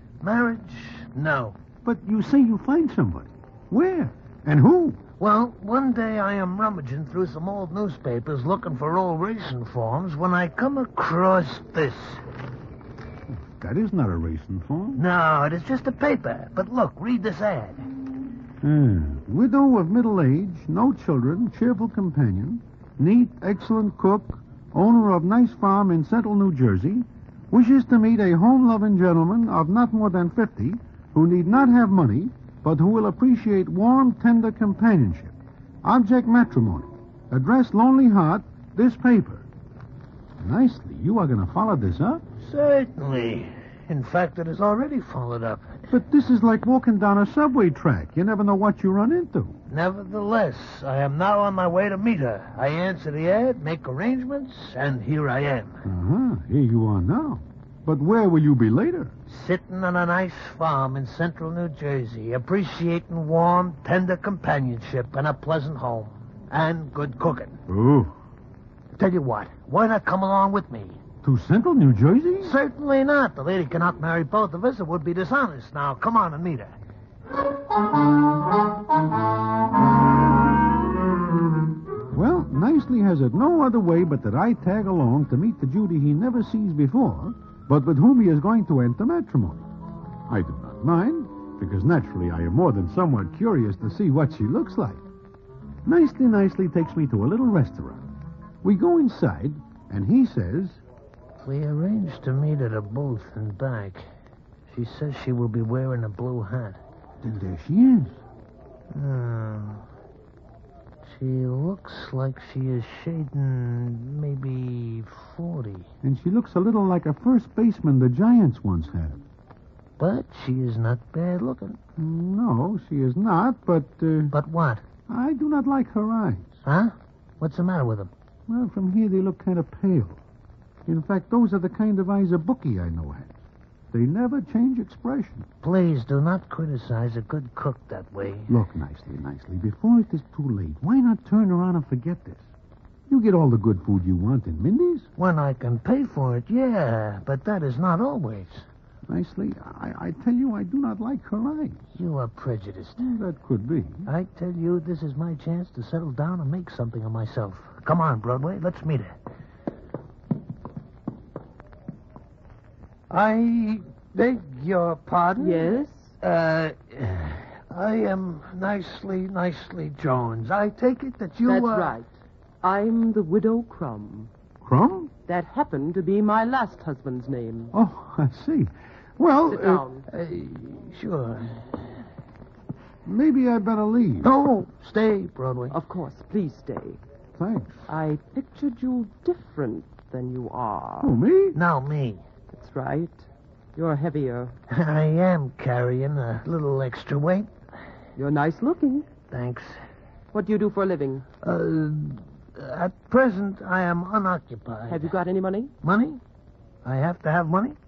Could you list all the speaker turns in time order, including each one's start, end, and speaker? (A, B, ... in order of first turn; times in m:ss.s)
0:00.2-0:01.6 A
0:01.8-0:05.0 B
0:05.2-0:12.2 A
0:13.3-0:15.0 B
0:14.9-0:17.9 A
0:18.6-0:39.4 B
0:40.4-0:42.2 B
0:42.4-0:45.8 A
0:45.9-0:49.6 B
0:49.7-0:55.8 A
0:55.8-0:59.2 B
0:59.3-1:07.6 A
1:07.7-1:08.1 B
1:08.9-1:11.0 A
1:11.2-1:12.6 B
1:12.4-1:16.7 A
1:22.1-1:29.7 B
1:30.3-1:35.0 B
1:35.8-1:38.1 B
1:38.6-1:40.8 B
1:41.4-1:44.0 A
1:44.7-1:46.8 A
1:47.2-1:48.2 B
1:48.9-1:49.8 A
1:51.0-1:55.9 A
1:56.0-1:59.2 B
2:00.0-2:01.8 A
2:02.0-2:04.4 B
2:04.3-2:04.8 A
2:05.1-2:06.6 B
2:06.6-2:08.1 A
2:08.5-2:10.2 B
2:10.8-2:13.3 B
2:13.9-2:15.5 B
2:15.6-2:18.6 A
2:18.5-2:22.4 B
2:23.1-2:25.1 B
2:25.2-2:28.7 A
2:29.1-2:31.8 B
2:31.9-2:33.1 A
2:33.0-2:34.1 B
2:34.1-2:39.1 A
2:43.1-2:52.0 A
2:45.4-2:46.1 C
2:51.4-2:52.1 C
2:52.6-2:54.3 C
2:54.6-2:55.1 B
2:55.3-2:57.7 C
2:57.7-2:59.8 B
2:59.5-3:00.1 C
3:00.1-3:01.9 A
3:03.0-3:04.3 B
3:04.2-3:05.8 A
3:05.7-3:07.0 C
3:07.4-3:07.8 B
3:07.9-3:11.1 C
3:11.0-3:11.6 B
3:11.5-3:12.2 A
3:12.5-3:14.6 C
3:14.7-3:17.5 A
3:18.2-3:19.0 C
3:19.3-3:19.8 A
3:20.3-3:21.2 C
3:21.4-3:25.1 A
3:24.9-3:25.7 C
3:25.8-3:26.2 A
3:26.8-3:27.8 A